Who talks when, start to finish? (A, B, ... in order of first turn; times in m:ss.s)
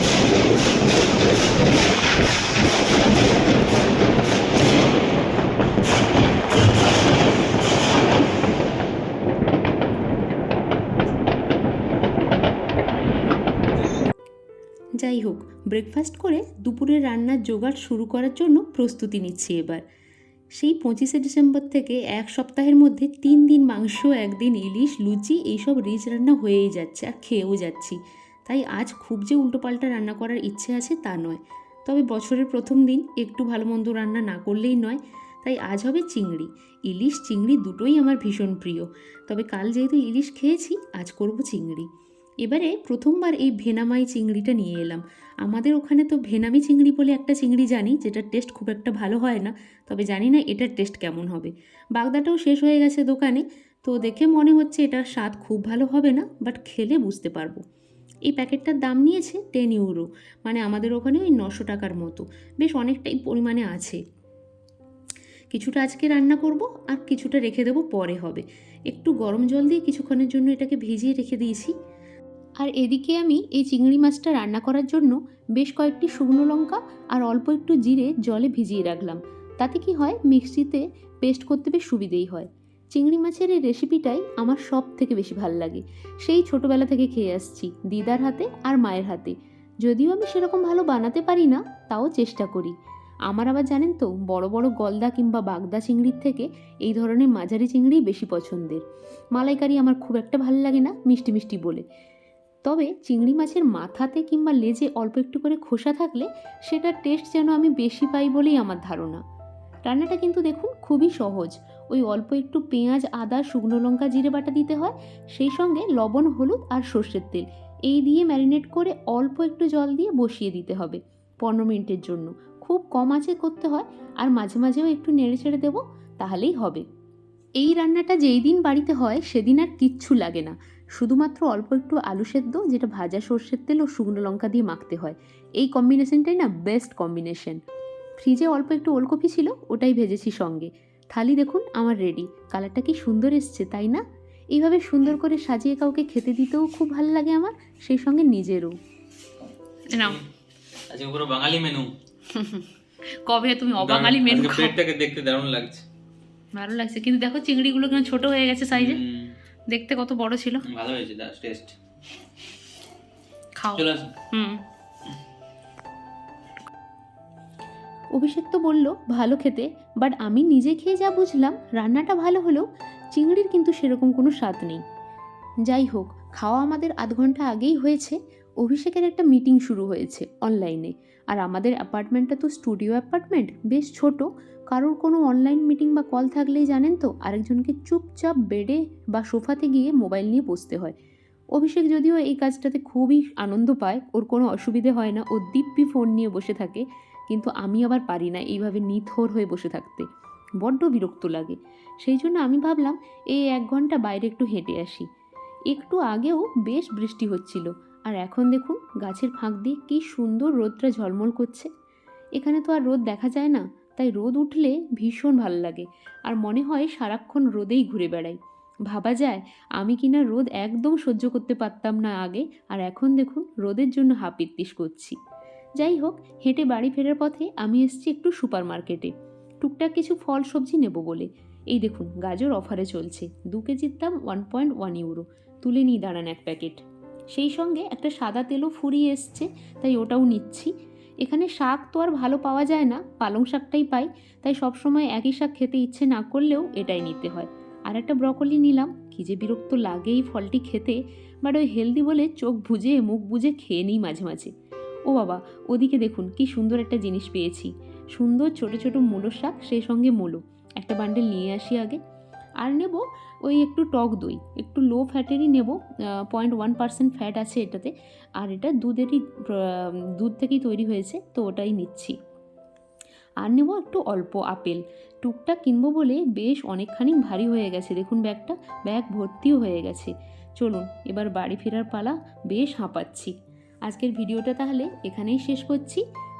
0:15.0-0:19.8 A
0:20.6-0:41.9 A
0:42.4-0:57.6 A
0:58.3-1:04.0 A
1:05.5-1:11.7 A
1:12.6-1:32.8 A
1:33.3-1:38.8 A
1:39.3-1:41.8 A
1:42.6-1:49.2 A
1:49.8-2:06.8 A
2:07.6-2:17.6 A
2:18.2-2:24.0 A
2:24.5-2:28.8 A
2:29.9-2:30.2 A
2:30.9-2:31.9 B
2:32.3-2:32.7 A
2:33.3-2:34.8 A
2:33.8-2:35.8 B
2:36.6-2:39.0 A
2:38.7-2:39.3 B
2:39.7-2:40.6 A
2:40.6-2:41.8 B
2:43.6-2:44.6 A
2:43.8-2:44.2 B
2:48.1-2:54.8 A
2:55.6-3:11.0 A
3:11.6-3:20.1 A
3:20.6-3:25.1 A
3:25.7-3:31.7 A
3:32.4-3:38.4 A
3:38.9-3:45.2 A
3:45.8-3:56.8 A
3:57.3-4:00.7 A
4:01.2-4:14.5 A
4:15.1-4:22.0 A
4:22.6-4:32.2 A
4:33.4-4:43.3 A
4:43.9-4:46.0 A